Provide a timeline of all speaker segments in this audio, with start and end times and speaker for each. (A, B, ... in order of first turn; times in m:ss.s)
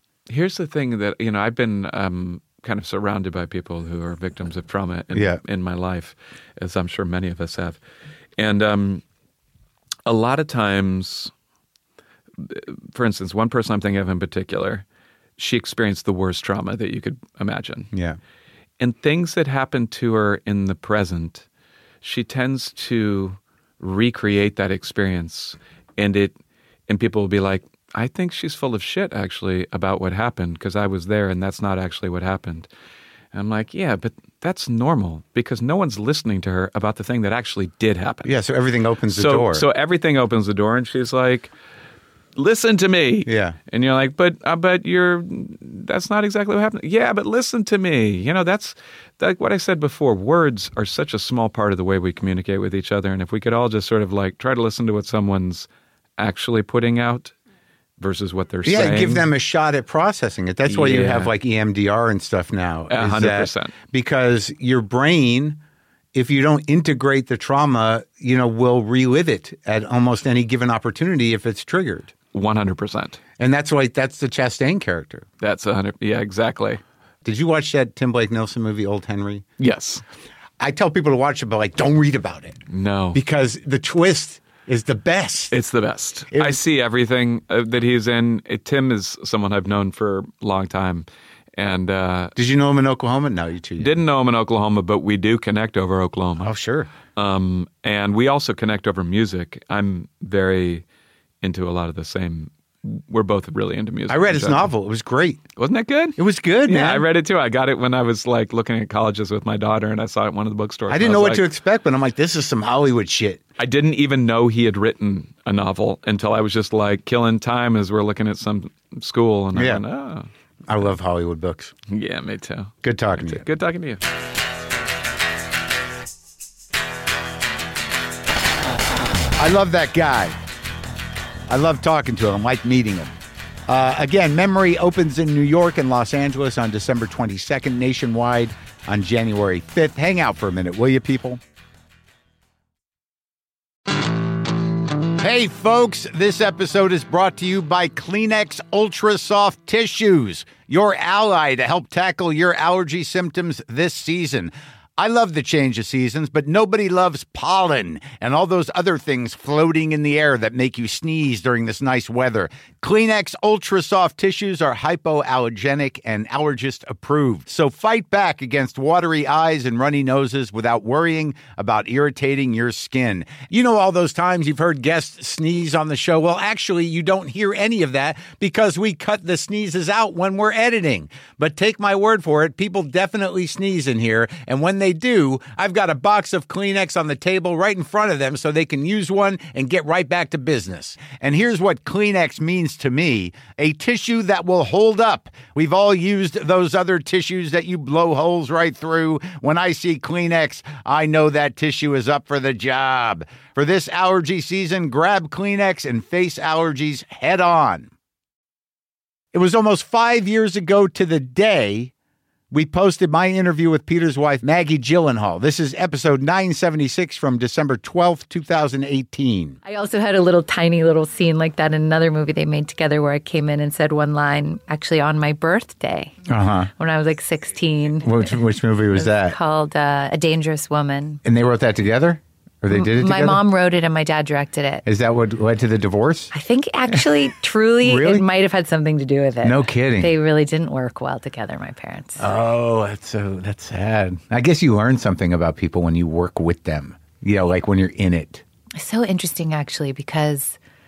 0:00.3-0:07.8 A
0:05.1-0:05.4 B
0:08.4-0:09.0 A
0:10.0-0:11.3 A
0:12.4-0:14.8 A
0:15.4-0:17.9 A
0:17.9-0:18.2 B
0:18.8-0:21.4 A
0:22.0-0:26.4 A
0:26.9-0:32.7 A
0:33.3-0:38.3 A
0:38.2-0:39.6 B
0:39.1-0:41.5 A
0:42.3-0:57.3 A
0:43.2-0:43.6 B
0:58.0-0:59.3 A
0:58.6-1:05.6 B
1:00.6-1:01.3 A
1:02.9-1:03.7 A
1:06.1-1:12.1 B
1:12.3-1:13.2 A
1:13.4-1:15.3 B
1:15.4-1:16.8 A
1:17.2-1:19.4 B
1:19.6-1:20.0 A
1:20.6-1:22.6 B
1:22.7-1:23.2 A
1:23.1-1:25.5 B
1:25.5-1:32.3 A
1:26.3-1:26.6 B
1:32.4-1:34.0 B
1:33.8-1:36.5 A
1:36.4-1:36.9 B
1:37.1-1:40.8 A
1:41.4-1:44.7 A
1:44.1-1:45.4 B
1:45.6-1:51.5 A
1:46.2-1:47.1 B
1:50.9-1:53.4 B
1:53.6-2:00.3 A
1:59.5-1:59.8 B
2:00.7-2:01.7 B
2:01.9-2:04.0 A
2:02.8-2:03.4 B
2:09.4-2:10.3 B
2:11.5-2:13.2 B
2:13.7-2:21.4 B
2:25.2-3:27.9 B
3:29.3-3:31.9 B
3:32.5-3:39.6 B
3:39.6-3:46.2 C
3:46.3-3:46.7 B
3:46.8-3:48.4 C
3:48.0-3:49.4 B
3:49.0-3:51.2 C
3:51.2-3:53.4 B
3:52.7-3:54.8 C
3:54.8-3:56.3 B
3:56.3-4:02.2 C
3:57.8-3:58.2 B
3:59.4-4:00.1 B
4:02.2-4:08.4 B
4:08.8-4:10.6 C